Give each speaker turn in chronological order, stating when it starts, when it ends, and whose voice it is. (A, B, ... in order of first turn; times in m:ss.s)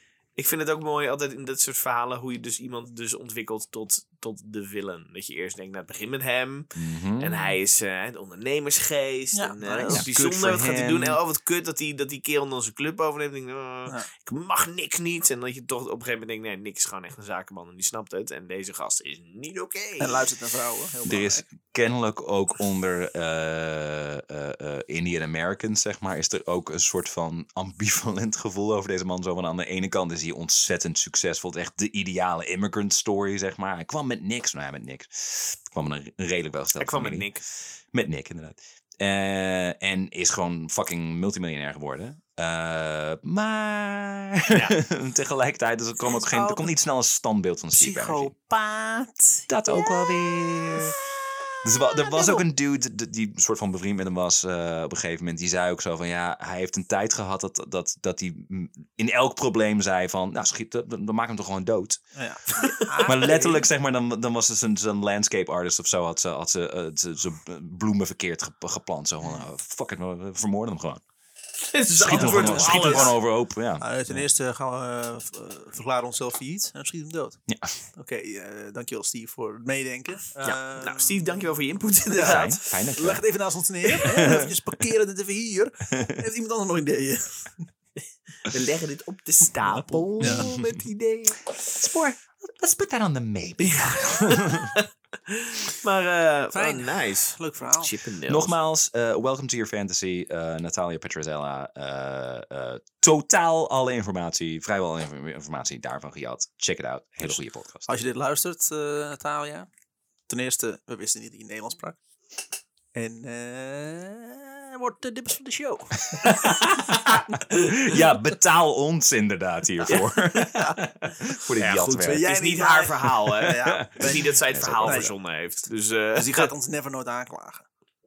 0:00.4-0:20.3 A
0:06.8-0:07.6 B
0:09.3-0:10.1 C
0:09.9-0:11.2 B
0:20.0-0:21.4 C
0:21.1-0:37.3 B
0:36.8-0:37.4 A
0:37.9-0:48.3 B
0:44.5-0:44.8 A
0:46.1-0:46.7 C
0:47.7-0:50.8 C
0:49.5-0:51.0 B
0:51.6-1:02.0 B
0:52.0-0:52.4 C
1:02.2-1:03.7 C
1:02.6-1:03.3 A
1:03.0-1:11.0 B
1:11.6-1:13.2 A
1:12.0-1:14.2 B
1:12.1-1:13.2 C
1:13.8-1:17.4 C
1:17.5-1:17.8 B
1:18.0-1:21.5 C
1:20.4-1:22.6 A
1:22.1-1:27.7 C
1:22.2-1:23.2 B
1:24.0-1:24.5 B
1:25.9-1:26.2 B
1:28.4-1:31.5 A
1:29.6-1:30.5 C
1:30.2-1:30.6 B
1:31.8-1:34.8 B
1:33.6-1:38.6 A
1:36.5-1:38.0 C
1:38.3-1:47.9 B
1:47.9-1:49.7 C
1:50.3-1:52.0 C
1:52.9-1:56.0 C
1:56.1-2:02.3 B
2:01.6-2:06.5 A
2:02.0-2:05.1 C
2:03.7-2:05.1 B
2:06.1-2:07.7 C